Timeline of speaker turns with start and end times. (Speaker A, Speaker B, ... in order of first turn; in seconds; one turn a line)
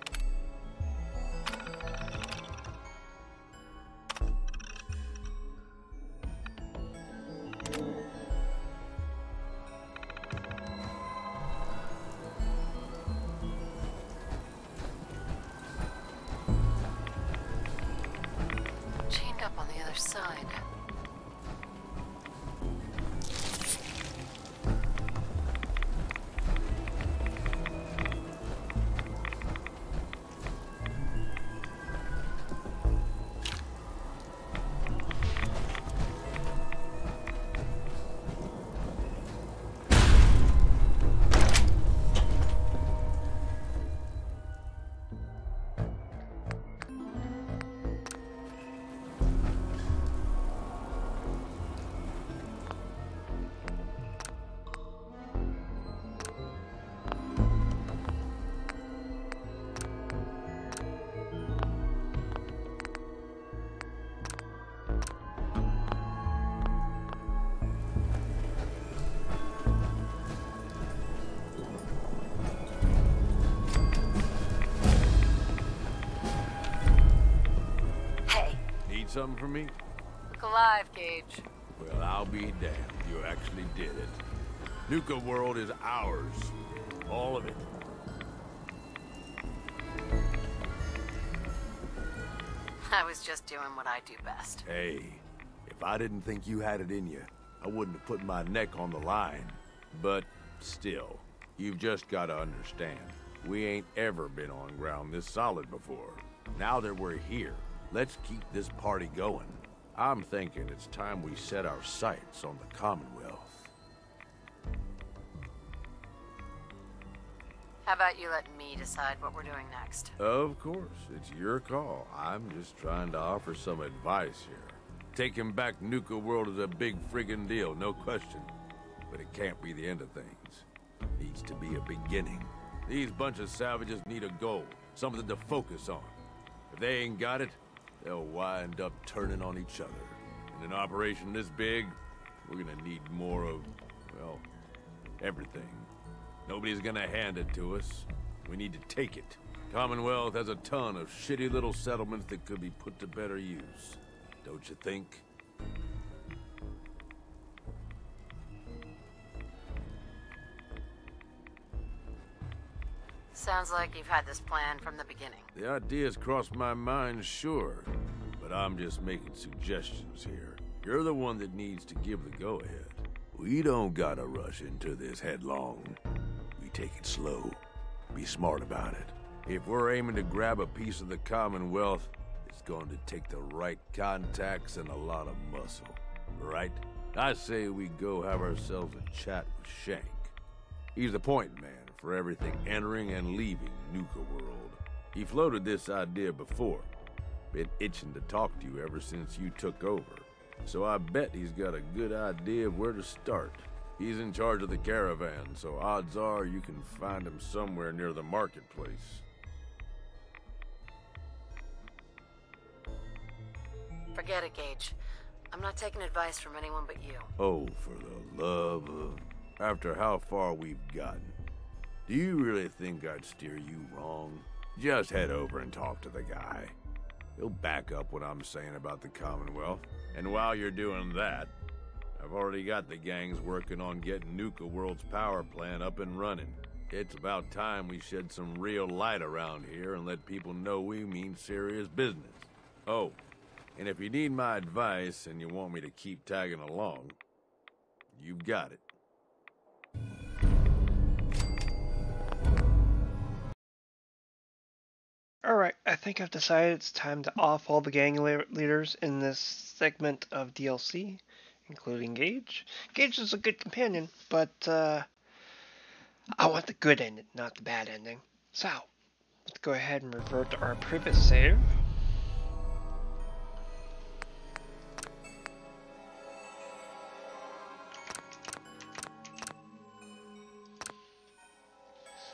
Speaker A: 19.1-20.6
Speaker A: 78.3-78.6
Speaker B: 78.8-79.8
Speaker A: 80.3-81.5
Speaker B: 81.8-84.2
Speaker B: 84.9-86.5
Speaker B: 87.1-87.7
Speaker A: 92.9-94.7
Speaker B: 94.7-113.7
Speaker A: 117.8-120.1
Speaker B: 120.2-128.5
Speaker B: 129.1-130.7
Speaker B: 131.2-136.2
Speaker B: 136.7-144.4
Speaker B: 145.2-145.9
Speaker B: 146.5-155.2
Speaker A: 163.3-165.5
Speaker B: 165.6-176.0
Speaker B: 176.6-177.6
Speaker B: 178.1-190.3
Speaker B: 190.9-196.9
Speaker B: 197.5-209.2
Speaker A: 214.1-215.0
Speaker A: 215.5-217.3
Speaker B: 217.4-221.3
Speaker B: 222.1-226.8
Speaker B: 227.4-231.5
Speaker B: 232.2-243.2
Speaker B: 243.8-247.2
Speaker B: 248.1-248.8
Speaker C: 255.4-265.1
Speaker C: 266.4-268.9
Speaker C: 269.5-271.7